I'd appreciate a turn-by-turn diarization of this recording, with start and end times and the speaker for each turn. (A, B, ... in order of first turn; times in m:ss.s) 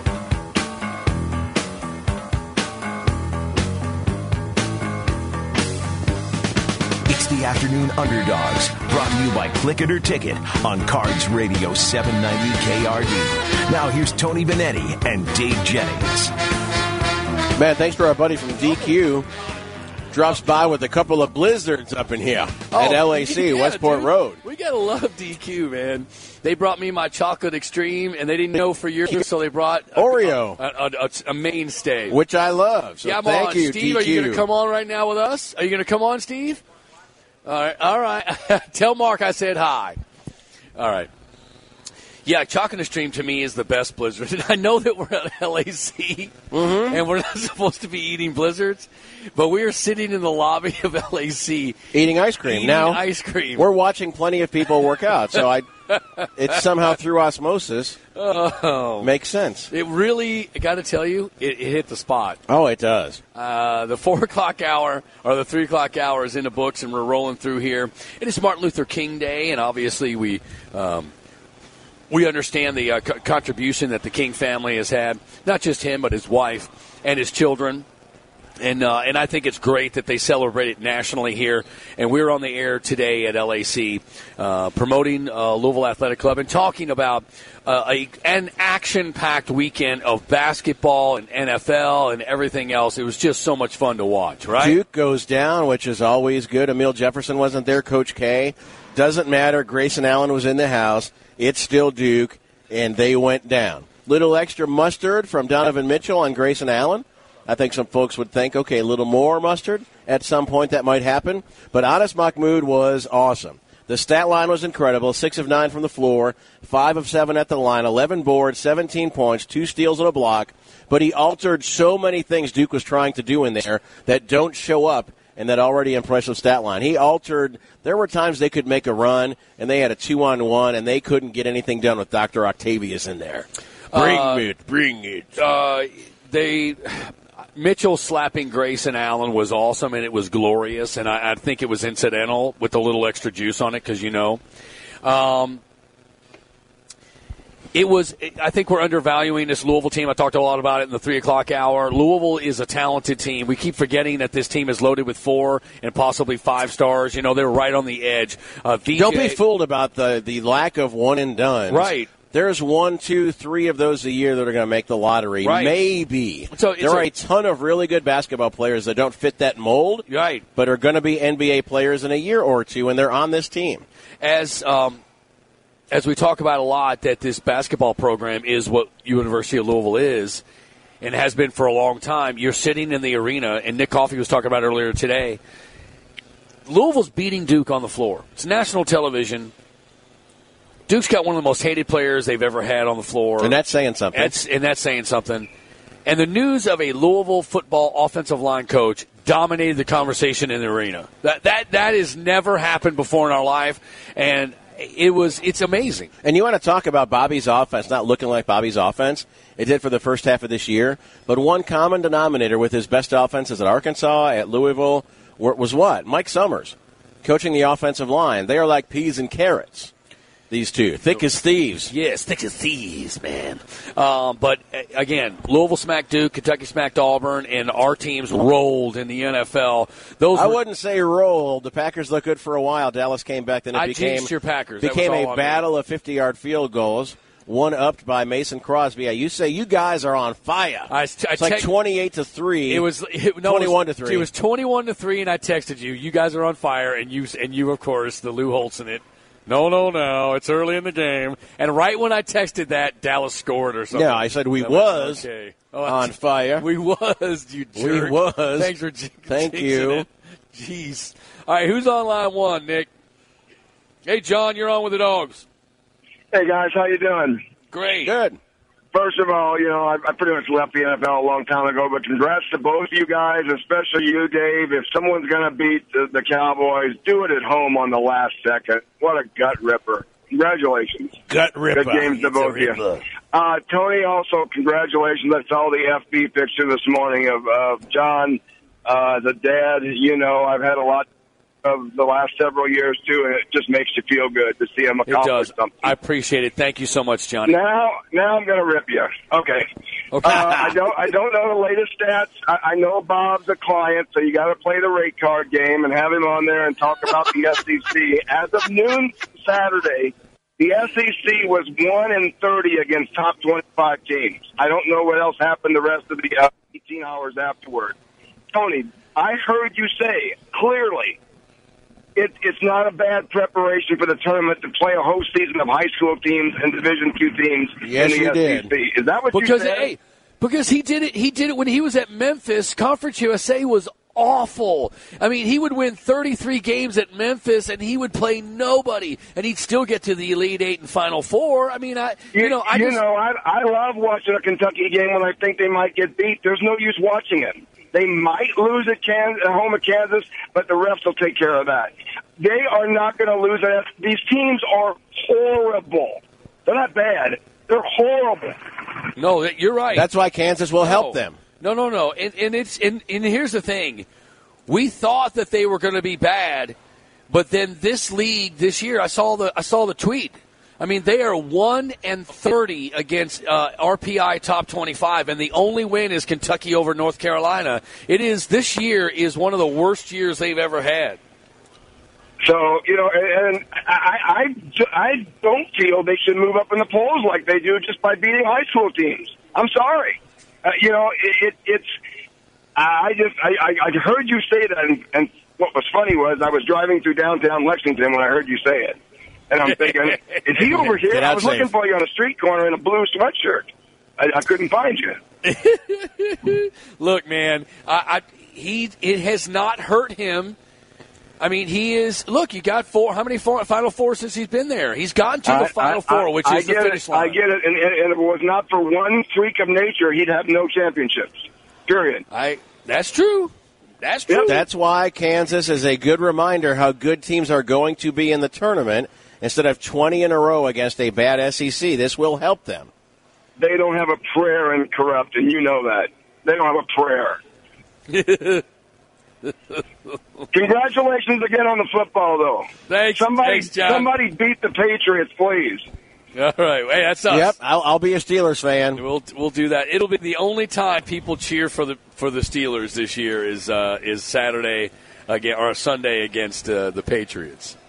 0:07.1-0:16.3 A
0:17.5-0:19.3 B
0:20.1-0:24.4 B
0:22.7-0:32.2 C
0:29.9-0:30.6 B
0:32.1-0:34.4 B
0:33.0-0:36.6 C
0:37.4-0:40.0 C
0:40.8-0:41.1 C
0:42.2-0:51.8 C
0:46.5-0:47.0 B
0:51.9-0:53.0 B
0:52.4-0:53.7 C
0:53.5-0:55.7 B
0:55.9-0:56.6 C
0:56.4-0:58.0 B
0:58.2-0:59.1 C
0:59.0-0:59.7 B
0:59.7-1:02.4 C
1:02.5-1:03.2 B
1:03.3-1:11.1 C
1:12.1-1:17.8 C
1:18.6-1:34.8 C
1:34.6-2:15.3 B
2:13.9-2:14.4 C
2:15.4-2:24.4 C
2:25.0-2:25.6 C
2:27.7-2:39.4 C
2:39.0-2:53.8 B
2:41.7-2:42.1 C
2:45.4-2:45.7 C
2:46.5-2:47.1 C
2:50.1-2:50.4 C
2:54.2-2:55.0 C
2:55.9-3:00.4 C
3:01.0-3:05.4 C
3:06.6-3:09.5 C
3:10.9-3:13.5 C
3:13.4-3:14.3 B
3:14.1-3:15.5 C
3:16.0-3:26.1 C
3:26.2-3:39.9 B
3:40.5-3:41.9 B
3:41.9-3:50.6 C
3:50.3-4:02.9 B
3:53.7-3:55.6 C
4:00.9-4:01.7 C
4:02.7-4:22.9 C
4:03.4-4:04.3 B
4:13.9-4:15.2 B
4:15.8-4:16.6 B
4:17.8-4:18.7 B
4:19.3-4:20.0 B
4:24.0-4:25.4 C
4:26.3-4:27.4 D
4:27.7-4:28.1 C
4:28.0-4:28.4 B
4:28.9-4:41.2 D
4:41.3-4:42.2 B
4:41.7-4:42.8 D
4:43.3-4:51.1 D
4:51.6-4:55.9 D
4:55.1-4:57.6 C
4:57.4-4:59.7 D
5:00.1-5:00.8 C
5:00.2-5:18.0 D
5:18.5-5:21.2 D
5:22.2-5:29.9 D
5:27.8-5:28.7 B
5:29.3-5:43.0 C
5:42.3-5:58.6 D
5:59.2-6:00.1 C
5:59.9-6:01.4 B
6:00.8-6:04.0 C
6:04.7-6:06.8 C
6:07.3-6:21.2 C
6:22.4-6:32.0 D
6:32.8-6:39.0 D
6:39.5-6:45.2 D
6:39.6-6:41.0 C
6:40.8-6:41.7 B
6:45.4-6:50.6 C
6:51.4-6:57.4 C
6:55.4-7:02.2 D
7:02.3-7:04.6 C
7:04.5-7:12.9 B
7:13.6-7:17.4 D
7:18.1-7:18.6 C
7:19.4-7:20.2 C
7:20.5-7:25.9 D
7:22.9-7:24.1 C
7:26.3-7:27.5 C
7:27.3-7:29.0 B
7:29.0-7:37.7 C